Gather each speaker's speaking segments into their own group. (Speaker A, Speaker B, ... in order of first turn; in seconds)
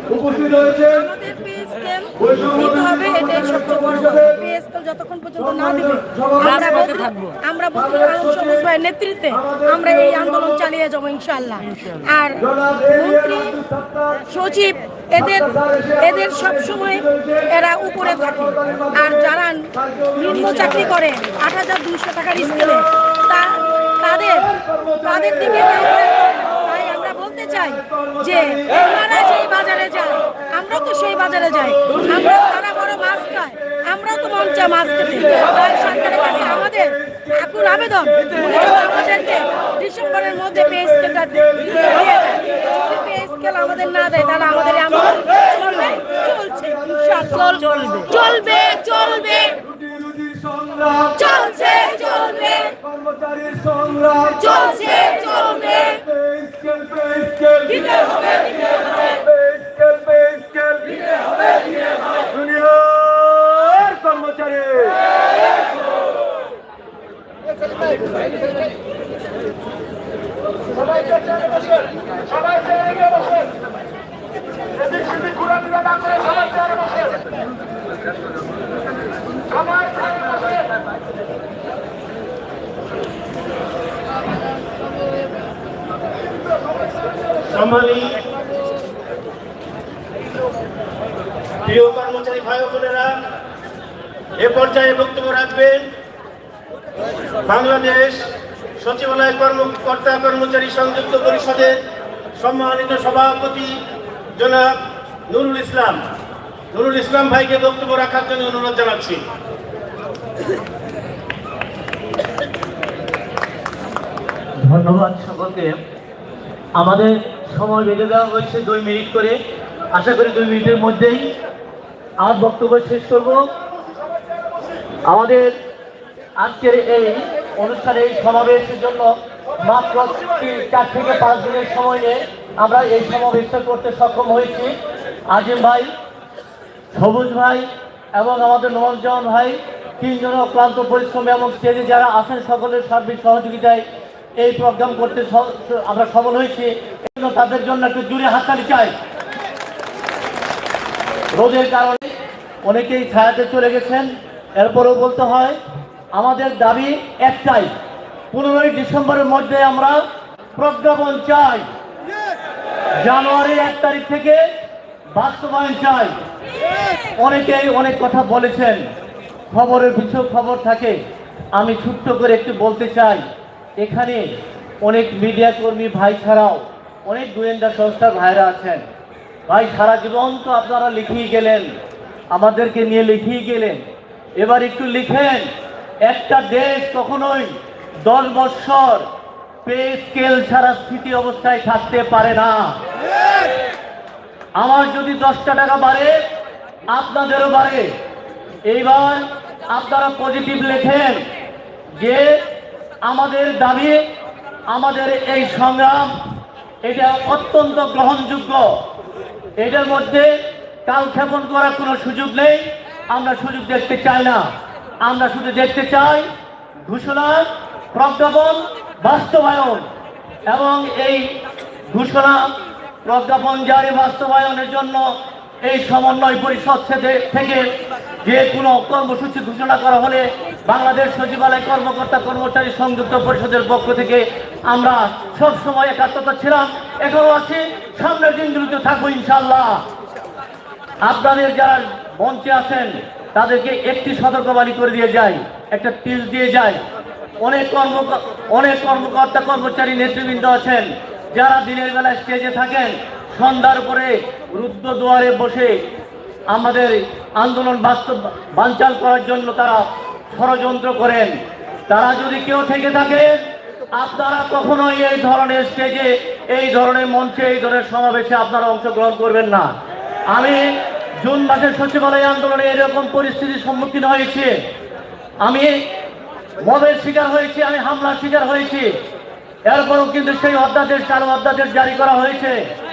Speaker A: 0.1-0.7, 2.2-4.2, 5.4-6.9, 9.4-10.2, 12.5-14.0, 24.6-25.3, 49.6-51.1, 52.8-54.5, 56.1-57.8, 59.3-60.8, 62.3-64.9
Speaker B: 0.6-13.6, 14.2-49.5, 51.1-52.7, 54.4-56.0
Speaker C: 87.5-88.1, 91.6-93.1, 94.4-95.8, 97.4-98.2, 98.8-101.8, 102.4-103.7, 104.4-104.7, 105.3-106.0, 106.7-109.2
Speaker D: 114.6-115.8, 116.8-119.4, 119.9-121.3, 122.2-123.5, 125.1-125.5, 126.4-134.7, 135.3-135.9, 136.9-143.8, 144.4-148.9, 151.4-152.1, 152.6-155.6, 156.2-157.7, 158.3-160.0, 160.6-161.7, 163.0-164.4, 165.2-166.1, 167.2-168.8, 169.5-171.0, 171.6-173.2, 173.8-174.3, 174.8-178.8, 179.5-181.7, 182.3-183.8, 184.4-185.5, 186.1-187.5, 188.0-189.1, 189.7-192.7, 194.6-196.2, 196.9-197.9, 198.7-201.2, 202.0-202.3, 203.1-204.0, 204.7-206.1, 206.8-208.7, 209.6-210.3, 210.9-214.4, 215.0-216.3, 216.8-219.8, 220.5-221.3, 221.9-222.5, 223.0-225.1, 225.6-227.6, 228.2-239.8, 241.1-246.8, 247.4-255.8, 256.5-261.3, 261.9-263.4, 263.9-269.7, 270.3-270.7, 271.2-274.5, 275.4-275.7, 276.6-278.9, 279.7-282.6